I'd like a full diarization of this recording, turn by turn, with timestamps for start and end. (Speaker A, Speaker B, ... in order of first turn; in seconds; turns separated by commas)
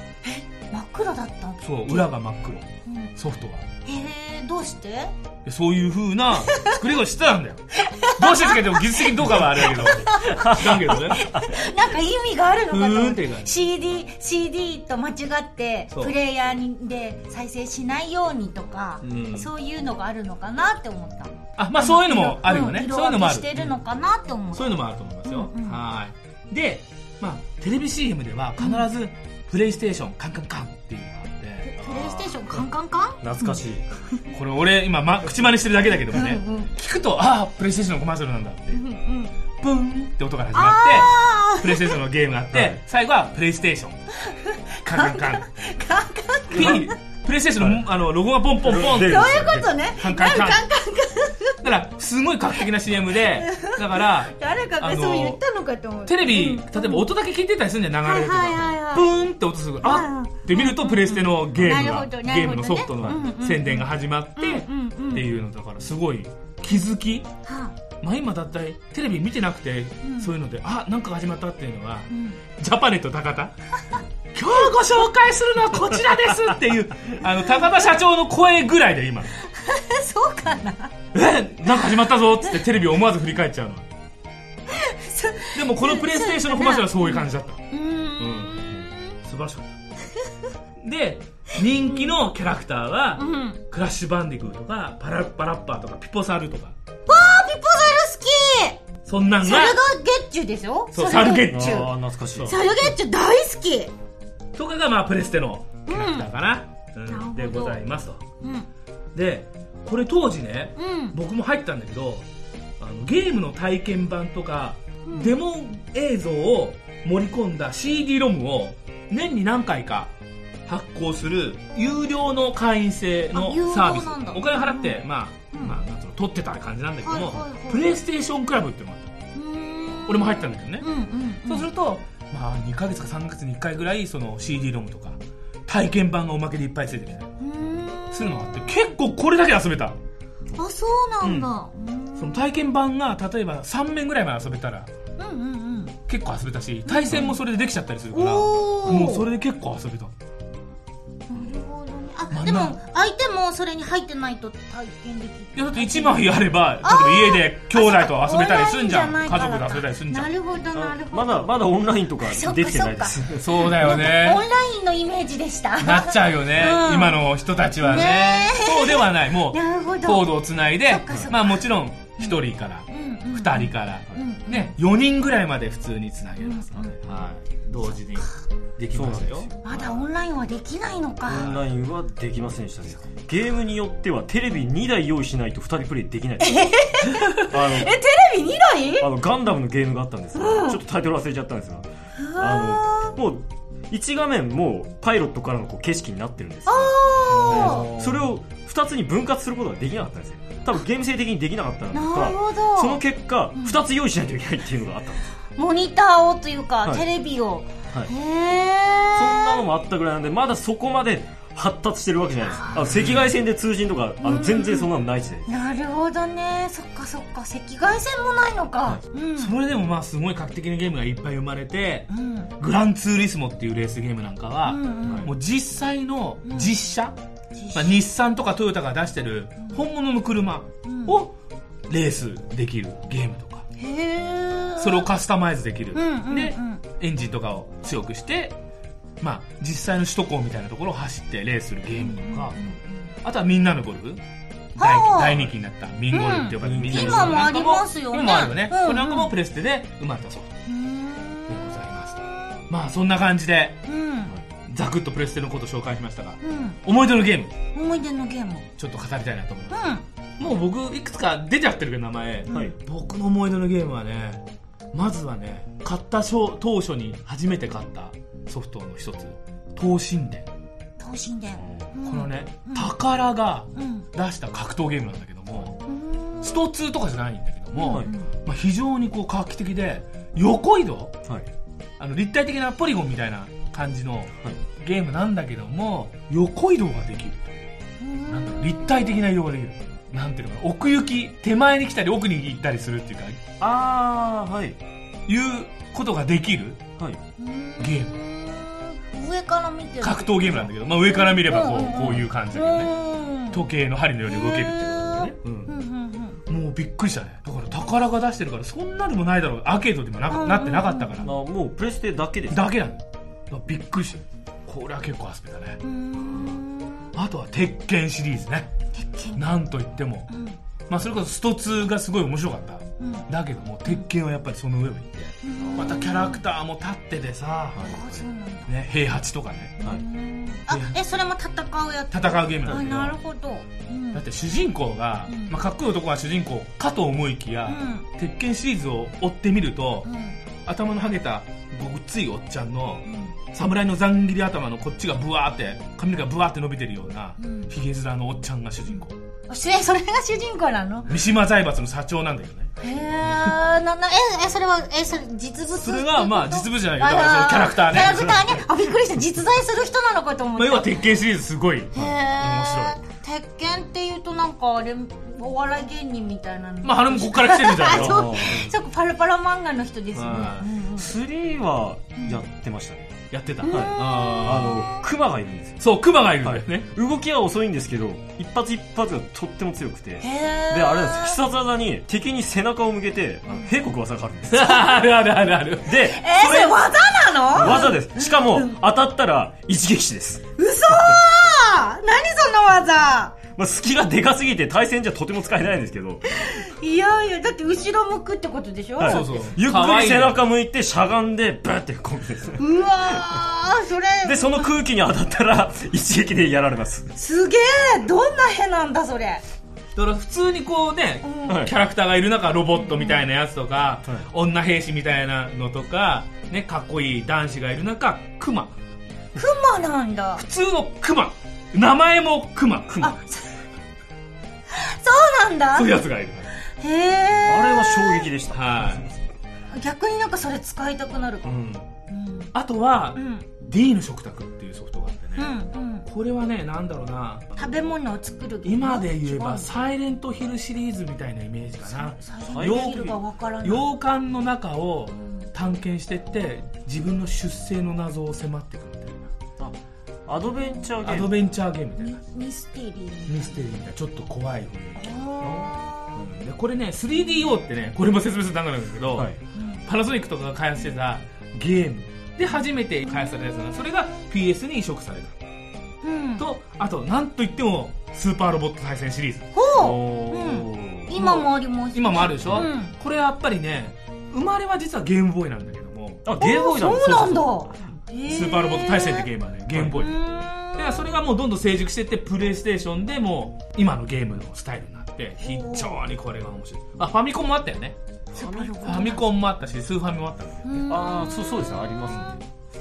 Speaker A: 0.2-2.0, Speaker B: 1.6-3.7, Speaker A: 2.9-3.1, Speaker A: 3.9-5.1, Speaker B: 5.5-11.2, Speaker A: 7.8-25.8, Speaker B: 12.7-13.5, Speaker B: 19.0-19.5, Speaker B: 21.6-23.7, Speaker B: 24.5-31.7, Speaker A: 28.6-28.9, Speaker A: 31.6-33.6, Speaker C: 31.8-32.6, Speaker C: 33.2-33.9, Speaker B: 34.3-38.8, Speaker A: 36.1-36.7, Speaker A: 38.7-39.3, Speaker B: 39.6-44.0, Speaker A: 40.5-42.0, Speaker C: 42.5-42.8, Speaker A: 44.3-46.9, Speaker B: 44.9-45.5, Speaker C: 46.5-46.9, Speaker B: 46.5-50.6, Speaker C: 47.6-47.8, Speaker C: 48.6-49.7, Speaker A: 49.0-51.6, Speaker B: 51.6-55.4, Speaker A: 53.4-57.1, Speaker B: 56.1-67.3, Speaker A: 58.0-59.1, Speaker A: 59.8-65.3, Speaker A: 67.5-67.8, Speaker B: 68.0-73.5, Speaker A: 70.0-70.3, Speaker A: 72.1-72.4, Speaker B: 74.3-79.4, Speaker A: 79.4-80.9, Speaker B: 81.1-83.9, Speaker A: 84.7-89.2, Speaker B: 85.5-87.7, Speaker B: 88.2-88.6, Speaker B: 89.2-89.7, Speaker B: 90.8-96.7, Speaker A: 91.8-92.2, Speaker A: 93.2-93.6, Speaker A: 97.1-98.8, Speaker B: 99.1-99.8, Speaker A: 99.4-101.9, Speaker B: 100.9-102.9, Speaker C: 101.4-102.6, Speaker A: 102.5-103.9, Speaker B: 104.5-108.2, Speaker A: 105.9-106.3, Speaker A: 107.1-107.8, Speaker A: 108.4-108.7, Speaker B: 109.2-112.3, Speaker A: 110.8-111.2, Speaker B: 112.8-120.1, Speaker A: 115.1-115.4, Speaker B: 120.7-129.1, Speaker A: 123.3-125.8, Speaker A: 127.0-127.9, Speaker A: 129.3-131.7, Speaker B: 130.1-130.9, Speaker B: 131.5-137.3, Speaker A: 137.4-138.6, Speaker B: 138.1-139.9, Speaker A: 140.6-142.4, Speaker B: 141.2-141.5, Speaker B: 142.2-144.9, Speaker A: 145.2-146.0, Speaker B: 146.1-150.1, Speaker A: 146.9-147.4, Speaker A: 148.1-149.3, Speaker A: 151.3-161.5, Speaker B: 152.3-152.8, Speaker B: 155.6-160.3, Speaker C: 160.7-163.4, Speaker A: 162.2-167.2, Speaker B: 163.2-164.4, Speaker B: 165.8-179.5, Speaker A: 167.9-171.6, Speaker A: 172.9-174.7, Speaker A: 176.4-177.0, Speaker C: 178.9-180.0, Speaker A: 179.6-181.5, Speaker C: 181.3-186.7, Speaker B: 181.3-181.6, Speaker A: 186.4-189.1, Speaker C: 187.5-187.9, Speaker C: 189.0-205.3, Speaker A: 190.3-190.8, Speaker A: 192.2-193.2, Speaker A: 196.7-197.9, Speaker B: 197.3-198.3, Speaker A: 201.9-203.0, Speaker A: 205.6-209.6, Speaker C: 209.2-215.5, Speaker A: 212.5-212.8, Speaker B: 212.8-213.2, Speaker A: 214.2-214.9, Speaker A: 215.5-219.5, Speaker B: 219.4-227.2, Speaker A: 222.1-222.5, Speaker A: 224.7-225.3, Speaker C: 225.1-225.3, Speaker A: 226.5-226.7, Speaker A: 227.6-228.0, Speaker B: 227.8-231.3, Speaker A: 230.8-231.2, Speaker B: 231.9-233.7, Speaker A: 233.8-235.1, Speaker B: 234.8-238.6, Speaker A: 235.9-236.8, Speaker B: 239.2-242.6, Speaker A: 242.0-242.9, Speaker B: 243.2-244.2, Speaker B: 244.8-250.6, Speaker A: 244.8-245.4, Speaker A: 246.1-249.3, Speaker C: 246.6-247.5, Speaker A: 250.7-251.8, Speaker B: 251.5-253.8, Speaker A: 253.9-254.3, Speaker B: 254.7-257.5, Speaker A: 256.4-256.8, Speaker A: 257.7-258.7, Speaker B: 258.8-259.8, Speaker A: 259.7-260.0, Speaker B: 260.4-270.5, Speaker C: 262.5-262.8, Speaker A: 271.0-273.0, Speaker C: 271.6-271.9, Speaker B: 272.1-275.8, Speaker A: 273.8-274.1, Speaker A: 275.9-276.7, Speaker B: 276.4-281.2, Speaker A: 277.8-278.3, Speaker B: 282.0-287.7, Speaker A: 288.0-289.1, Speaker B: 288.3-293.4, Speaker C: 293.6-294.8, Speaker B: 295.3-296.9, Speaker A: 297.4-303.6, Speaker B: 297.8-298.1, Speaker B: 300.0-302.9, Speaker B: 303.5-305.7, Speaker A: 304.3-306.4, Speaker B: 306.5-311.3, Speaker A: 310.3-311.3, Speaker C: 311.2-312.6, Speaker B: 312.5-316.6, Speaker A: 315.8-317.1, Speaker B: 317.1-318.7, Speaker A: 318.9-319.4, Speaker B: 319.4-320.3, Speaker A: 320.3-320.6, Speaker B: 320.9-327.8, Speaker A: 325.4-326.4, Speaker C: 325.6-326.0, Speaker C: 327.7-328.3, Speaker A: 327.8-328.7, Speaker B: 328.7-329.8, Speaker A: 329.8-334.2, Speaker B: 330.7-330.9, Speaker B: 332.1-333.2, Speaker B: 334.1-340.1, Speaker A: 335.3-335.6, Speaker A: 337.7-338.1, Speaker A: 340.1-340.4, Speaker B: 340.7-349.1, Speaker A: 343.1-343.3, Speaker A: 347.4-347.7, Speaker A: 348.9-351.1, Speaker B: 351.1-352.7, Speaker A: 352.8-360.9, Speaker B: 355.8-358.4, Speaker B: 360.6-363.0, Speaker A: 361.9-371.1, Speaker B: 366.8-368.6, Speaker C: 367.8-368.7, Speaker B: 370.1-370.7, Speaker C: 371.0-375.9, Speaker A: 372.2-372.4, Speaker B: 373.3-374.8, Speaker A: 373.6-375.1, Speaker B: 375.8-376.9, Speaker C: 376.4-384.8, Speaker A: 380.2-381.4, Speaker A: 383.5-383.7, Speaker B: 384.5-386.0, Speaker C: 385.9-386.8, Speaker A: 386.0-388.7, Speaker C: 387.5-390.4, Speaker B: 387.6-387.9, Speaker A: 390.6-393.4, Speaker C: 393.6-396.2, Speaker A: 396.3-399.5, Speaker C: 399.0-403.2, Speaker B: 399.0-400.4, Speaker A: 402.6-404.7, Speaker C: 404.2-407.1, Speaker A: 407.2-409.4, Speaker B: 409.9-418.7, Speaker A: 411.2-411.6, Speaker C: 411.5-411.7, Speaker A: 412.8-413.2, Speaker A: 419.4-420.4, Speaker B: 420.4-423.1, Speaker A: 423.0-423.6, Speaker A: 424.7-425.9, Speaker B: 425.8-426.5, Speaker A: 426.8-428.3, Speaker C: 427.5-429.1, Speaker B: 428.5-429.1, Speaker A: 429.7-431.6, Speaker C: 431.5-431.8, Speaker A: 432.1-432.5, Speaker B: 432.5-435.5, Speaker A: 433.2-433.4, Speaker A: 435.4-436.1, Speaker B: 436.1-437.6, Speaker A: 437.6-439.8, Speaker B: 438.6-449.3, Speaker A: 441.9-443.9, Speaker C: 442.4-443.2, Speaker C: 449.6-451.3, Speaker B: 451.0-452.2, Speaker A: 452.0-453.8, Speaker B: 453.3-455.2, Speaker A: 455.0-456.3, Speaker C: 455.4-455.7, Speaker B: 456.2-465.3, Speaker A: 459.6-459.8, Speaker A: 463.1-463.9, Speaker A: 466.0-466.4, Speaker B: 466.4-469.5, Speaker A: 469.5-472.9, Speaker C: 469.8-471.1, Speaker B: 471.1-476.3, Speaker C: 472.4-472.7, Speaker C: 476.2-477.5, Speaker A: 476.4-479.3, Speaker B: 477.0-477.5, Speaker B: 478.3-480.2, Speaker C: 479.7-480.0, Speaker A: 479.9-481.0, Speaker B: 480.8-488.0, Speaker A: 485.4-486.0, Speaker C: 488.3-489.0, Speaker A: 488.4-489.3, Speaker B: 488.8-490.8, Speaker A: 490.7-491.5, Speaker C: 490.9-492.4